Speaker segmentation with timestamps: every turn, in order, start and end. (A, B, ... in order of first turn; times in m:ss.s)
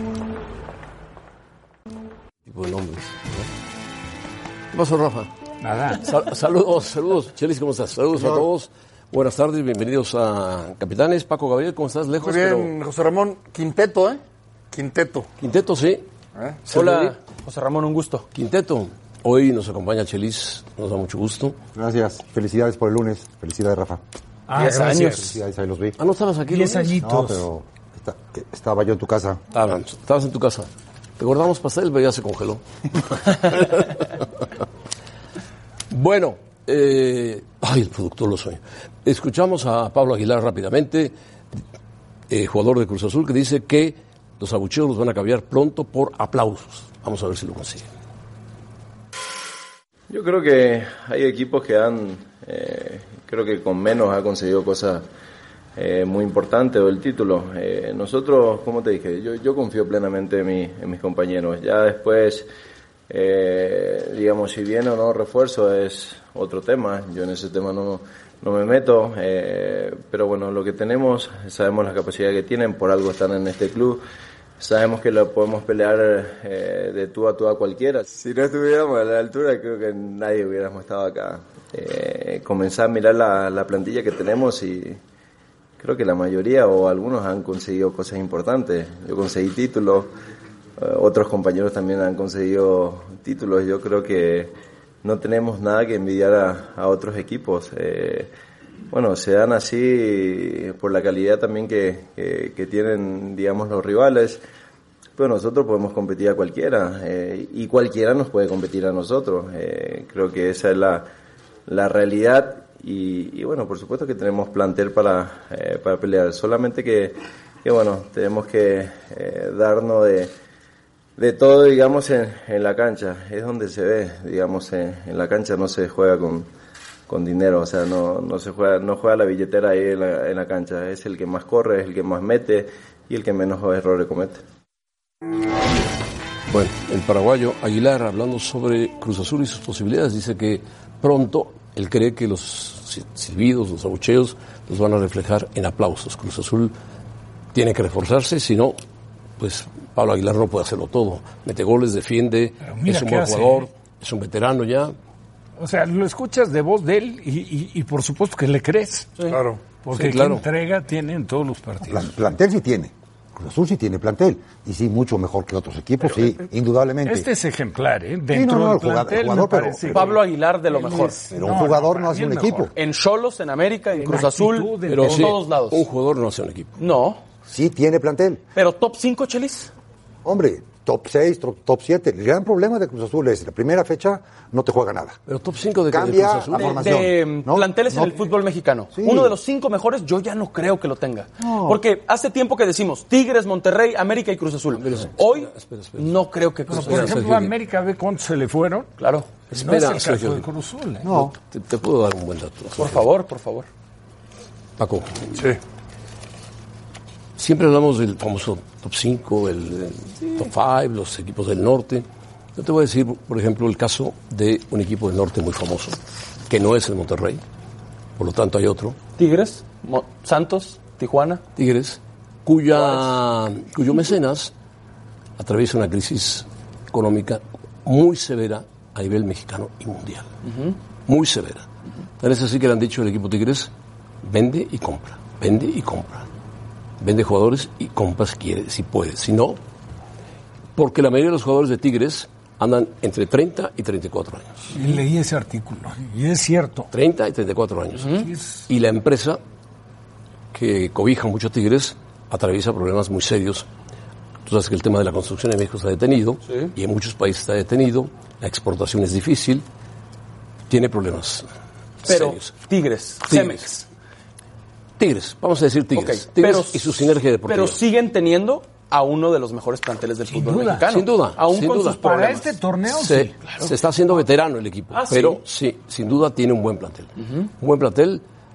0:02.5-0:03.5 A
0:04.7-0:05.3 A
0:05.6-0:06.0 B
0:05.9-0:12.7 A
0:12.2-0:14.2 C
0:14.7-0:15.3 C
0:15.4-0:16.1 A
0:16.7-0:18.3 D
0:16.7-0:17.2 A
0:18.3-0:21.6 A
0:21.8-0:24.0 E
0:24.5-0:25.3 B
0:24.6-0:25.2 D
0:25.2-0:26.0 E
0:26.0-0:27.0 A
0:26.5-0:27.4 B
0:27.0-0:29.4 E
0:29.5-0:32.6 A
0:33.2-0:34.1 A
0:35.9-0:41.1 A
0:42.3-0:47.9 A
0:50.1-0:55.1 F
0:55.8-1:02.5 F
1:03.1-1:14.0 F
1:14.6-1:25.0 F
1:25.8-1:30.1 F
1:30.8-1:38.3 F
1:38.9-1:44.4 F
1:45.2-1:51.1 F
1:51.7-2:00.3 F
2:01.2-2:06.5 F
2:07.1-2:14.4 F
2:16.5-2:26.7 A
2:27.5-2:28.8 A
2:29.4-2:34.9 A
2:32.6-2:33.7 B
2:35.6-2:42.1 B
2:39.3-2:39.6 C
2:39.9-2:40.4 A
2:41.9-2:47.3 E
2:47.0-2:52.7 B
2:48.3-2:50.1 E
2:49.9-2:51.2 D
2:51.3-2:52.7 E
2:52.7-2:55.8 D
2:54.0-2:55.4 B
2:54.9-2:56.8 A
2:56.8-2:57.2 D
2:57.5-2:58.4 E
2:58.6-2:59.7 D
3:00.2-3:05.2 E
3:05.3-3:06.9 A
3:05.9-3:08.2 E
3:06.6-3:17.3 D
3:08.9-3:09.4 E
3:11.4-3:11.8 E
3:14.8-3:17.5 A
3:16.7-3:18.9 B
3:19.0-3:19.4 D
3:19.5-3:20.5 A
3:19.5-3:21.1 B
3:21.0-3:21.3 E
3:21.1-3:23.1 A
3:22.8-3:23.7 D
3:24.8-3:25.4 A
3:27.4-3:37.4 A
3:38.2-3:39.0 A
3:39.2-3:41.4 D
3:41.6-3:44.5 A
3:42.7-3:43.1 D
3:45.4-3:50.3 A
3:50.5-3:50.7 D
3:51.1-3:51.7 A
3:52.2-3:53.7 A
3:54.2-3:56.3 A
3:57.0-3:59.6 A
4:00.8-4:04.8 A
4:04.7-4:06.9 B
4:06.9-4:09.4 A
4:08.2-4:08.6 B
4:10.5-4:13.7 A
4:14.5-4:19.6 A
4:16.5-4:16.7 D
4:20.7-4:21.5 A
4:22.0-4:22.6 A
4:22.0-4:23.9 D
4:23.3-4:23.7 A
4:25.0-4:27.8 A
4:26.0-4:32.5 D
4:30.3-4:30.9 B
4:30.9-4:32.2 A
4:31.8-4:33.3 B
4:32.9-4:38.2 A
4:33.4-4:33.7 D
4:34.9-4:35.4 D